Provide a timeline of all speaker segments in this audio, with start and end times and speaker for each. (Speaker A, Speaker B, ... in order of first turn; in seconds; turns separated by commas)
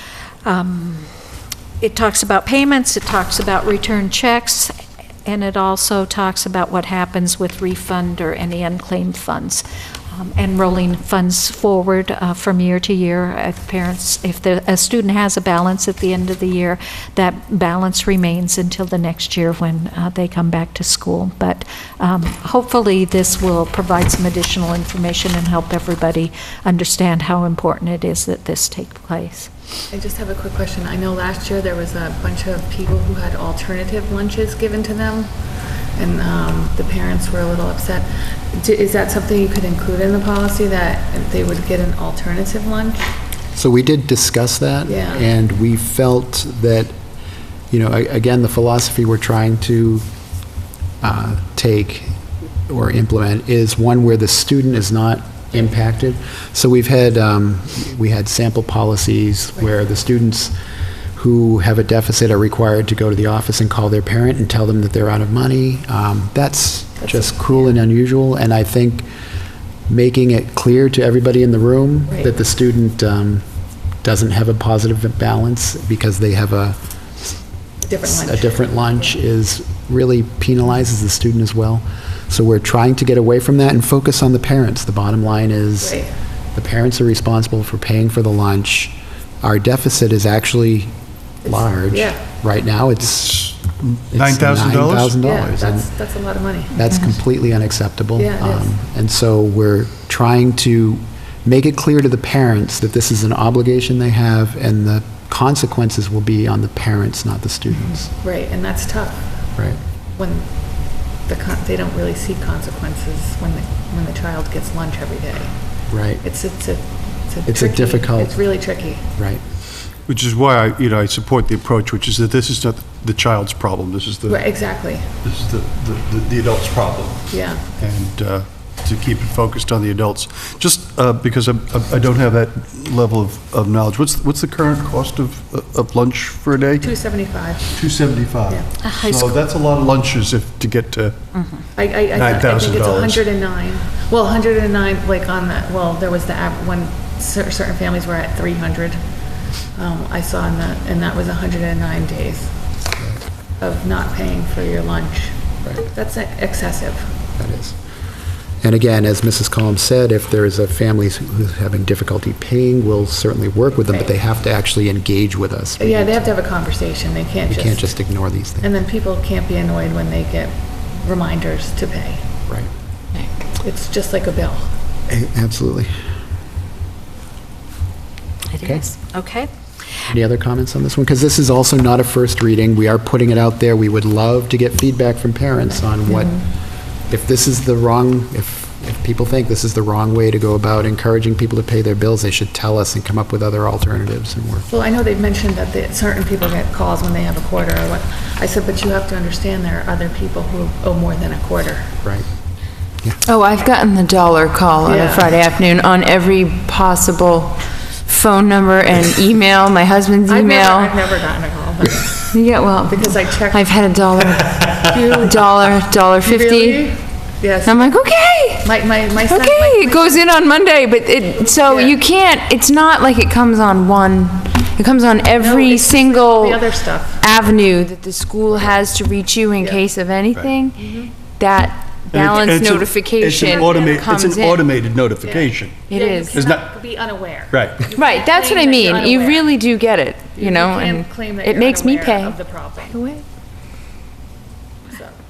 Speaker A: 0.5-1.1, Speaker A: 1.8-4.7, Speaker A: 5.3-29.5, Speaker B: 29.9-35.3, Speaker B: 36.0-43.0, Speaker C: 43.6-47.0, Speaker B: 44.9-45.3, Speaker C: 47.7-50.1, Speaker C: 51.0-52.2, Speaker C: 52.7-60.6, Speaker C: 61.1-69.1, Speaker B: 67.0-67.3, Speaker C: 69.9-73.4, Speaker C: 74.0-77.3, Speaker B: 77.8-79.1, Speaker C: 78.0-86.0, Speaker B: 85.8-86.1, Speaker C: 86.5-90.9, Speaker B: 91.5-92.2, Speaker C: 91.5-93.6, Speaker D: 93.4-95.2, Speaker C: 94.1-95.9, Speaker B: 95.2-96.8, Speaker C: 96.7-108.1, Speaker B: 98.2-98.7, Speaker B: 108.2-109.3, Speaker B: 110.1-110.5, Speaker B: 111.2-115.6, Speaker C: 115.9-116.2, Speaker B: 116.2-119.1, Speaker C: 117.5-118.4, Speaker D: 120.1-124.5, Speaker B: 124.3-125.1, Speaker D: 125.2-137.0, Speaker B: 127.3-127.7, Speaker B: 136.8-137.7, Speaker D: 137.7-141.3, Speaker A: 138.8-139.4, Speaker B: 141.8-149.0, Speaker D: 142.1-143.3, Speaker B: 149.8-152.5, Speaker C: 153.0-153.2, Speaker B: 153.6-155.4, Speaker B: 155.9-157.1, Speaker C: 157.4-157.8, Speaker C: 158.6-166.3, Speaker B: 165.8-167.9, Speaker C: 167.5-168.7, Speaker B: 168.6-172.3, Speaker B: 173.6-174.7, Speaker C: 175.1-176.1, Speaker A: 178.5-179.5, Speaker C: 178.6-178.9, Speaker C: 180.1-186.4, Speaker C: 187.1-194.7, Speaker B: 194.7-201.9, Speaker E: 203.3-211.0, Speaker B: 204.8-205.4, Speaker B: 210.3-212.3, Speaker E: 212.3-216.9, Speaker B: 212.9-213.8, Speaker B: 214.3-215.4, Speaker B: 216.2-220.3, Speaker E: 217.7-230.8, Speaker B: 221.4-222.0, Speaker B: 225.4-227.2, Speaker B: 229.6-229.8, Speaker B: 230.8-231.1, Speaker E: 231.4-234.7, Speaker D: 232.1-236.7, Speaker B: 233.4-233.9, Speaker B: 235.2-239.6, Speaker E: 235.9-236.4, Speaker D: 237.5-237.9, Speaker E: 238.0-243.2, Speaker B: 240.4-243.0, Speaker B: 244.9-245.2